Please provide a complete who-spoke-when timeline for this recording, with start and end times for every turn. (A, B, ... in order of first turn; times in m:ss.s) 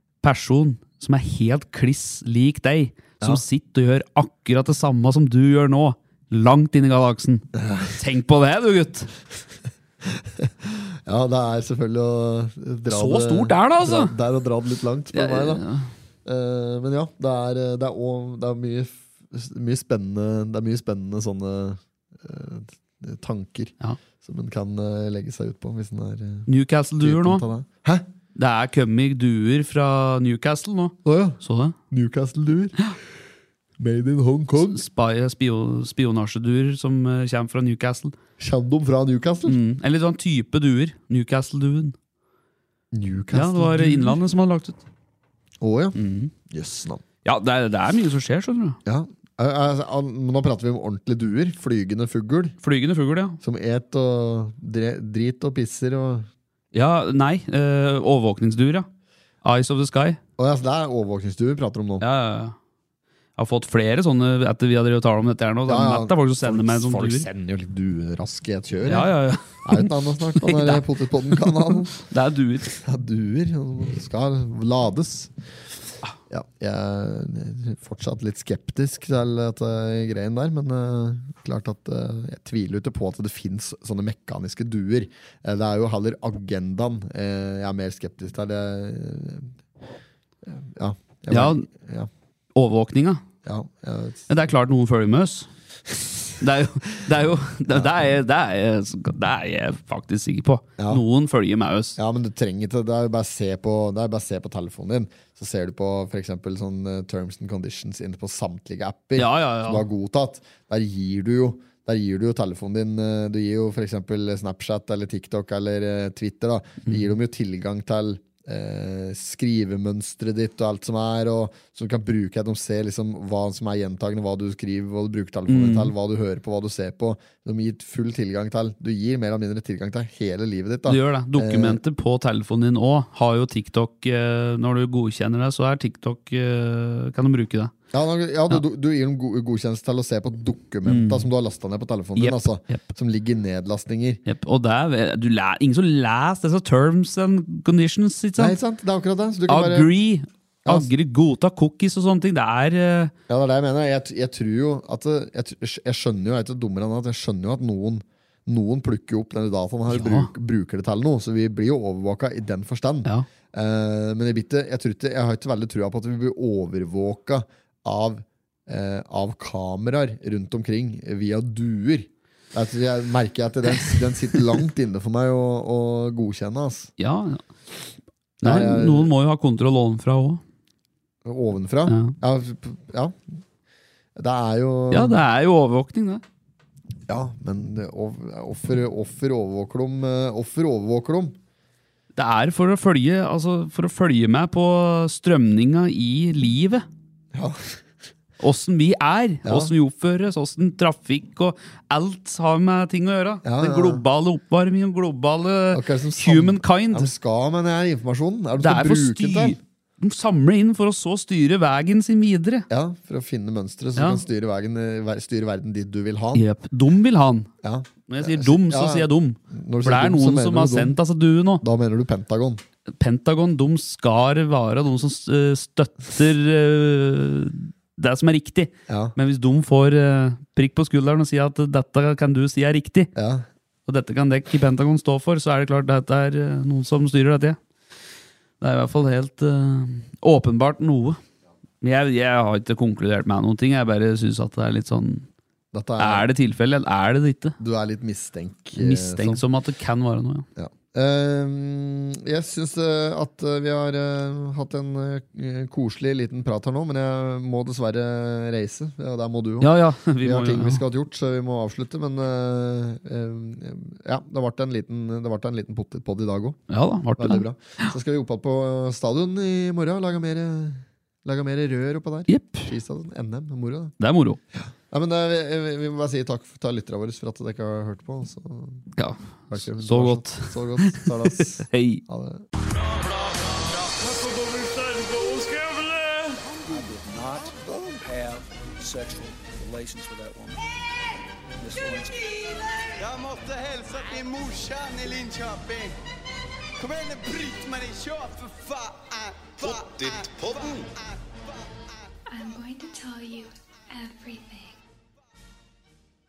0:00.2-0:07.5 A
0:07.6-0:08.0 B
0:08.0-0:09.1 A
0:10.1-0:15.6 B
0:12.9-0:14.1 A
0:15.1-0:15.9 A
0:16.2-0:26.5 B
0:26.5-0:27.4 A
0:27.0-0:28.0 B
0:28.4-0:31.8 A
0:31.0-0:31.4 B
0:31.9-0:32.8 B
0:33.8-0:34.8 B
0:34.6-0:38.2 A
0:38.4-0:39.6 B
0:39.5-0:42.0 A
0:42.9-0:44.2 B
0:43.3-0:44.8 A
0:45.6-0:46.0 B
0:46.0-0:46.3 A
0:46.5-0:47.0 B
0:47.2-0:48.8 A
0:48.9-0:52.6 B
0:52.6-0:53.4 A
0:53.4-0:56.3 B
0:56.7-0:58.9 A
0:59.4-1:00.2 A
1:00.4-1:02.0 B
1:02.0-1:02.6 A
1:03.4-1:07.3 A
1:05.7-1:11.9 B
1:08.9-1:12.8 A
1:12.8-1:15.3 B
1:16.3-1:29.5 B
1:30.4-1:32.1 B
1:31.3-1:31.7 A
1:32.6-1:33.2 A
1:33.4-1:34.3 B
1:34.3-1:35.5 A
1:36.4-1:42.0 A
1:42.0-2:11.8 B
1:49.2-1:49.8 A
2:05.5-2:05.9 A
2:10.9-2:17.7 A
2:17.9-2:24.2 B
2:20.8-2:21.3 A
2:22.2-2:22.8 A
2:24.3-2:28.6 A
2:28.4-2:29.9 B
2:29.5-2:33.1 A
2:33.3-2:56.9 B
2:39.9-2:40.3 A
2:57.0-2:57.4 A
2:58.4-2:59.1 B
2:58.4-3:00.4 A
3:01.2-3:03.2 B
3:01.9-3:02.2 A
3:04.2-3:05.2 B
3:04.9-3:06.2 A
3:07.1-3:11.4 B
3:12.2-3:16.9 A
3:17.3-3:17.8 B
3:18.4-3:27.1 A
3:19.4-3:19.7 B
3:23.4-3:24.0 B
3:25.7-3:29.6 B
3:28.6-3:32.7 A
3:32.7-3:36.4 B
3:34.0-3:34.2 A
3:36.4-3:37.5 A
3:37.6-3:40.9 B
3:38.1-3:41.6 A
3:41.6-3:42.6 B
3:43.0-3:53.1 A
3:48.9-3:49.2 B
3:53.2-3:53.4 B
3:53.9-3:57.6 A
3:58.6-4:01.2 A
4:01.8-4:05.3 A
4:05.7-4:06.3 B
4:06.0-4:07.6 A
4:07.6-4:09.4 B
4:08.8-4:10.5 A
4:10.6-4:19.7 B
4:19.6-4:20.8 A
4:20.2-4:26.6 B
4:26.7-4:27.4 A
4:27.2-4:33.9 B
4:32.3-4:32.7 A
4:34.0-4:34.4 A
4:34.5-4:38.9 B
4:39.0-4:42.0 A
4:39.5-4:42.5 B
4:46.5-4:50.7 C
4:51.6-4:52.4 C
4:53.0-4:56.0 D
4:56.8-5:01.2 D
5:02.3-5:04.8 E